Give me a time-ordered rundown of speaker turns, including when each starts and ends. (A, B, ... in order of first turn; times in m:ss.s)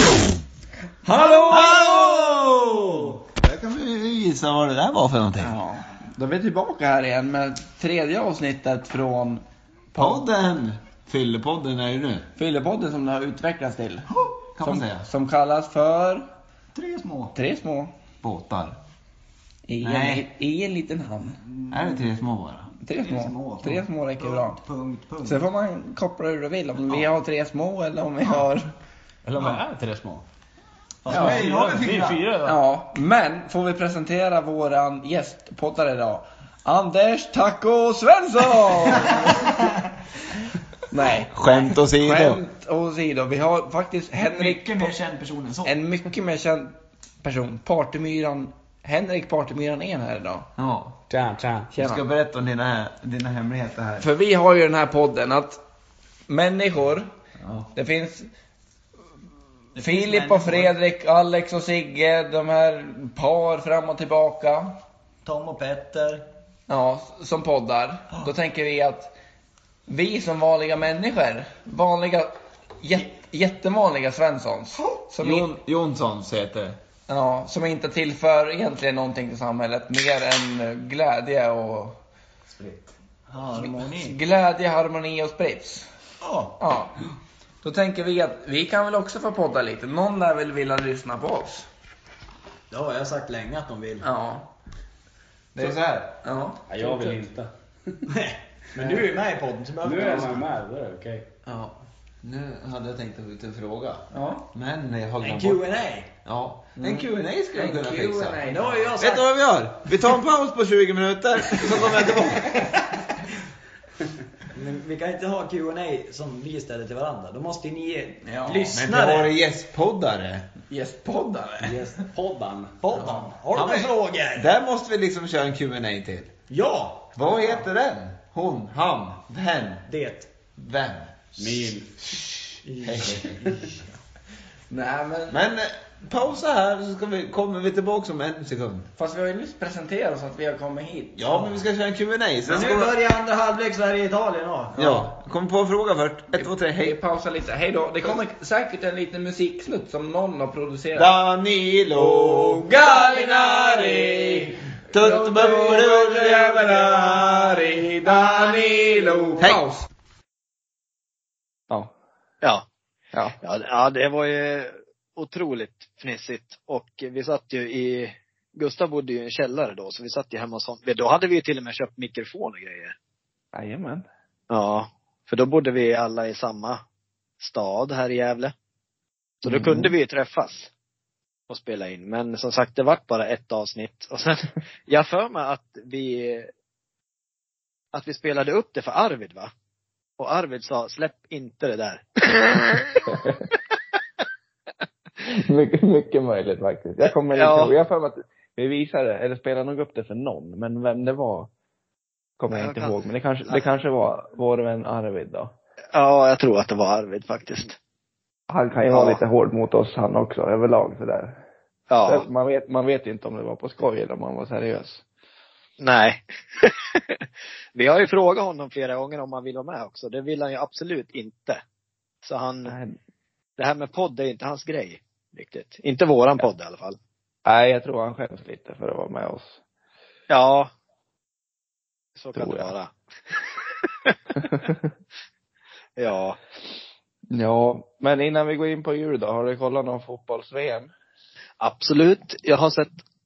0:01.0-0:02.3 A
0:01.5-0:05.6 B
0:05.4-0:10.2 A
0:10.0-0:12.3 B
0:12.4-0:16.3 A
0:14.5-0:15.0 B
0:16.7-0:17.4 C
0:17.3-0:17.9 A
0:18.2-0:18.8 B
0:19.7-0:21.4 A
0:19.8-0:20.2 B
0:21.4-0:22.0 C
0:21.7-0:22.7 B
0:22.8-0:24.6 A
0:23.0-0:25.4 C
0:25.2-0:28.7 A
0:29.3-0:30.2 D
0:29.4-0:29.8 C
0:31.0-0:32.3 C
0:31.1-0:32.2 B
0:31.1-0:32.6 D
0:31.1-0:31.4 A
0:32.4-0:39.6 A
0:39.0-0:39.7 C
0:40.9-0:44.9 A
0:41.3-0:42.4 B
0:44.2-0:45.8 C
0:45.6-0:50.5 A
0:50.6-0:51.0 B
0:51.1-0:51.6 C
0:51.2-0:51.6 D
0:51.7-0:52.0 A
0:51.7-0:54.0 B
0:54.0-0:55.6 A
0:56.3-0:57.1 A
0:57.4-0:57.7 B
0:57.7-0:58.3 A
0:59.8-1:00.7 C
0:59.8-1:04.8 A
1:05.2-1:06.2 C
1:06.7-1:09.1 A
1:09.9-1:15.5 A
1:15.2-1:16.8 B
1:17.1-1:22.0 A
1:22.5-1:24.2 C
1:23.6-1:25.9 A
1:26.2-1:26.6 C
1:26.6-1:27.0 A
1:27.6-1:31.7 A
1:32.7-1:34.1 C
1:34.0-1:34.5 A
1:35.6-1:36.2 B
1:35.6-1:37.2 A
1:36.7-1:37.4 D
1:36.8-1:37.2 C
1:38.0-1:41.0 C
1:38.8-1:39.1 A
1:39.8-1:41.2 D
1:41.4-1:41.8 A
1:42.2-1:45.6 B
1:44.1-1:44.5 A
1:45.2-1:46.1 C
1:46.2-1:48.4 B
1:46.8-1:49.0 A
1:48.4-1:49.2 C
1:49.0-1:52.6 B
1:54.5-1:59.3 C
1:58.2-1:58.7 A
1:58.7-2:00.5 B
2:00.7-2:01.8 A
2:01.6-2:02.8 D
2:02.5-2:04.5 C
2:03.0-2:03.3 A
2:03.5-2:06.3 B
2:06.5-2:07.6 C
2:07.1-2:09.8 B
2:09.9-2:10.3 C
2:10.5-2:11.8 B
2:11.4-2:11.7 D
2:11.5-2:11.8 C
2:12.6-2:13.7 C
2:12.8-2:13.5 B
2:14.7-2:15.4 A
2:15.3-2:18.9 B
2:19.0-2:21.5 A
2:21.2-2:22.9 B
2:22.4-2:24.8 C
2:24.8-2:25.1 A
2:24.8-2:27.0 B
2:26.3-2:31.1 A
2:30.9-2:32.7 B
2:31.9-2:39.9 A
2:34.9-2:37.2 B
2:43.4-2:52.9 E
2:53.5-2:54.0 A
2:54.5-2:56.8 E
2:57.4-2:58.5 E
2:59.4-3:00.7 E
2:59.4-2:59.9 A
3:01.5-3:06.5 E
3:07.9-3:09.5 E
3:10.2-3:13.2 E
3:13.1-3:13.4 A
3:15.2-3:21.5 A
3:17.3-3:17.7 E
3:22.4-3:25.5 A
3:22.5-3:23.7 E
3:25.9-3:27.8 E
3:28.5-3:31.4 A
3:28.9-3:29.2 E
3:31.9-3:32.3 E
3:32.1-3:35.0 A
3:35.8-3:37.2 E
3:37.8-3:41.6 E
3:42.2-3:42.8 E
3:42.6-3:43.0 A
3:43.6-3:47.0 E
3:47.4-3:49.6 A
3:50.3-3:50.7 E
3:52.2-3:54.2 E
3:52.3-3:52.7 A
3:54.4-3:54.9 A
3:56.0-3:56.4 E
3:57.3-4:00.9 A
4:01.6-4:02.9 E